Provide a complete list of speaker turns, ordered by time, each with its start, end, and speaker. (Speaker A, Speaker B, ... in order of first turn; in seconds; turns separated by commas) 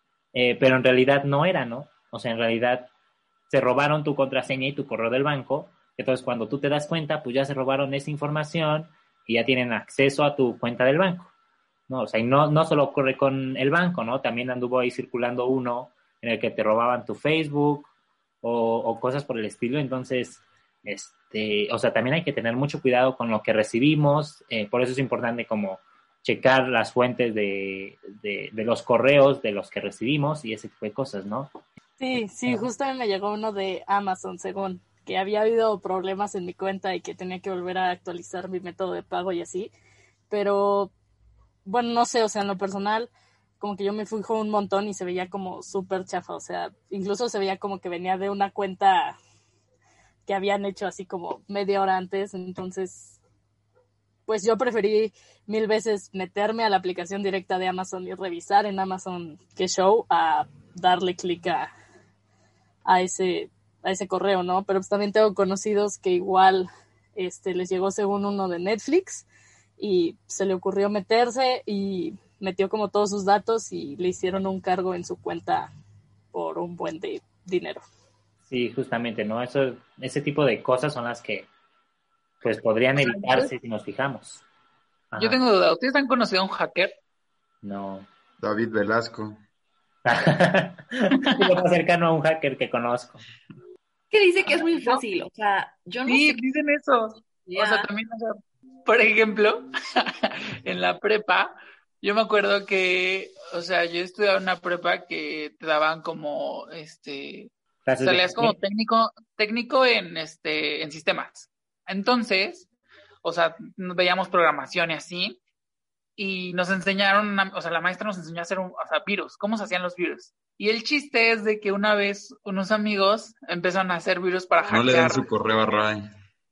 Speaker A: 0.3-2.9, Speaker A: 3.5-11.3, Speaker A: 11.9-17.9, Speaker A: 18.4-31.5, Speaker B: 32.0-39.7, Speaker B: 40.3-40.9, Speaker B: 41.6-49.1, Speaker B: 50.3-53.2, Speaker B: 54.3-61.7, Speaker B: 62.8-69.3, Speaker B: 69.8-75.7, Speaker B: 76.3-77.8, Speaker A: 78.5-81.5, Speaker A: 82.4-84.4, Speaker C: 83.0-83.5, Speaker A: 85.1-85.4, Speaker C: 85.2-86.9, Speaker A: 87.6-88.1, Speaker D: 88.4-89.4, Speaker A: 90.0-93.2, Speaker C: 91.2-91.5, Speaker E: 94.1-96.4, Speaker C: 94.6-95.0, Speaker C: 96.0-112.7, Speaker E: 97.4-97.9, Speaker A: 107.8-108.6, Speaker C: 113.2-115.4, Speaker C: 116.2-125.3, Speaker D: 124.7-126.0